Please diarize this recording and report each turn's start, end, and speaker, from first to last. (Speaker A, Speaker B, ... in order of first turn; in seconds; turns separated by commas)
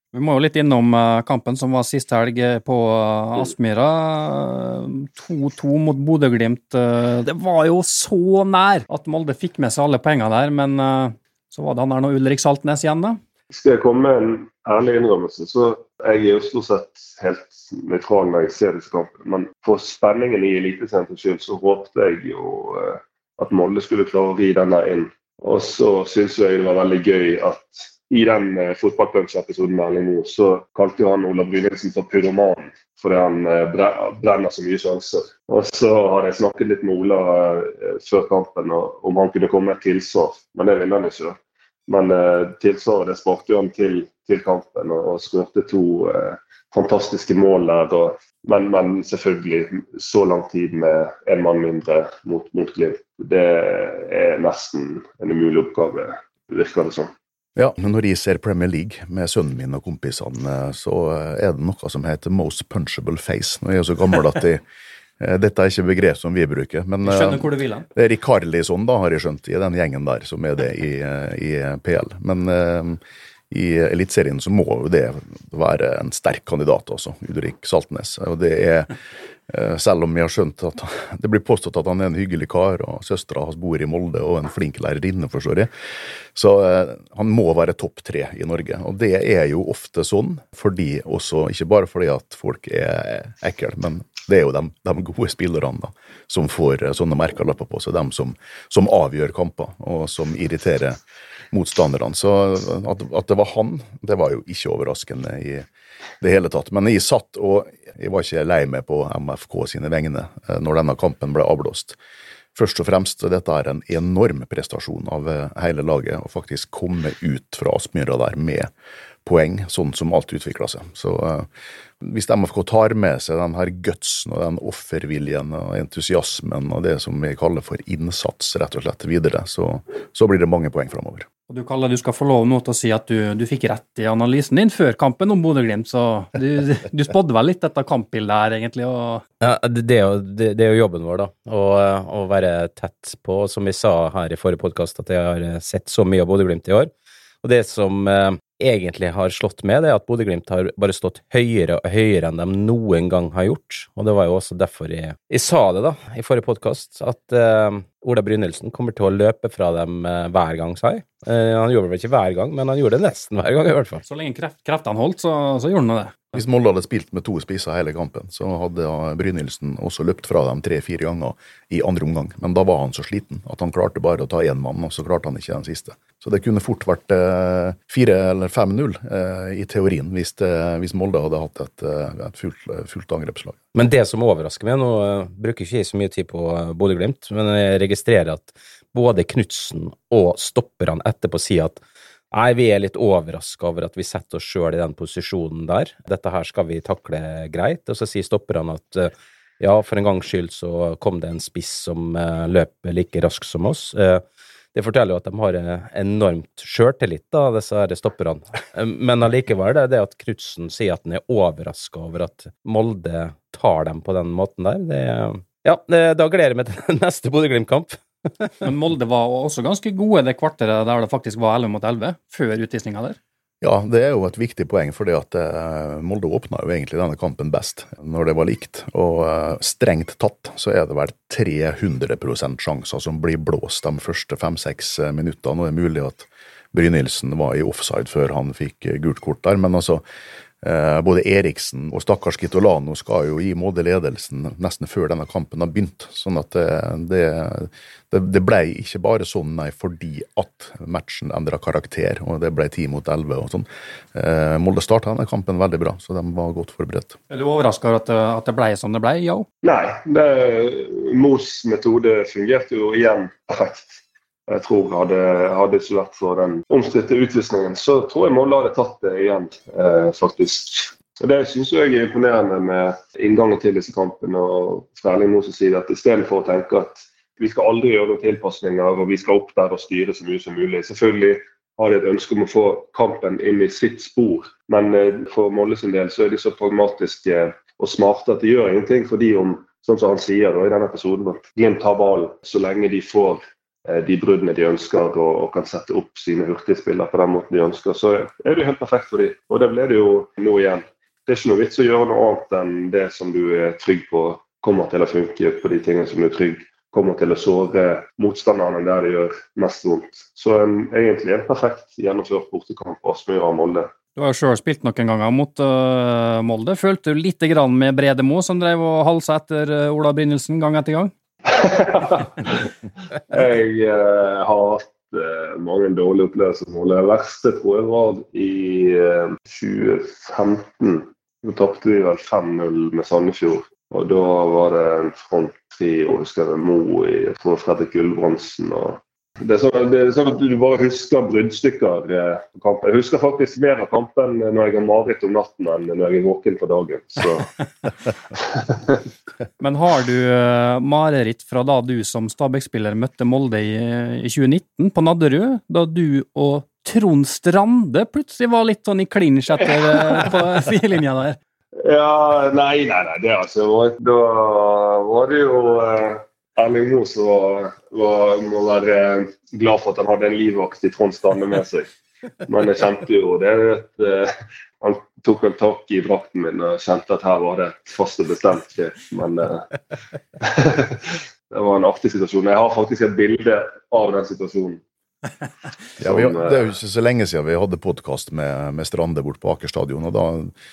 Speaker A: 0.1-13.2, Speaker B: 13.5-57.1, Speaker C: 57.5-64.6, Speaker C: 65.2-78.9, Speaker A: 67.0-67.9, Speaker C: 79.5-85.7, Speaker C: 86.3-101.0, Speaker C: 101.5-105.7, Speaker C: 106.2-112.0, Speaker C: 112.5-118.7, Speaker C: 119.2-121.5, Speaker C: 122.0-131.3, Speaker A: 131.5-139.2, Speaker D: 139.4-146.9, Speaker D: 147.4-164.0, Speaker A: 164.0-166.2, Speaker C: 166.3-183.6, Speaker D: 183.7-191.8, Speaker D: 192.3-204.2, Speaker D: 204.7-218.5, Speaker A: 218.6-223.2, Speaker C: 223.6-240.0, Speaker C: 240.6-257.2, Speaker A: 257.3-259.5, Speaker B: 259.6-313.9, Speaker A: 314.1-321.1, Speaker B: 321.4-322.6, Speaker B: 323.2-347.6, Speaker B: 348.4-349.0, Speaker A: 349.6-361.4, Speaker B: 361.8-371.9, Speaker B: 372.4-379.7, Speaker B: 380.4-384.8, Speaker C: 386.0-390.5, Speaker B: 386.0-386.6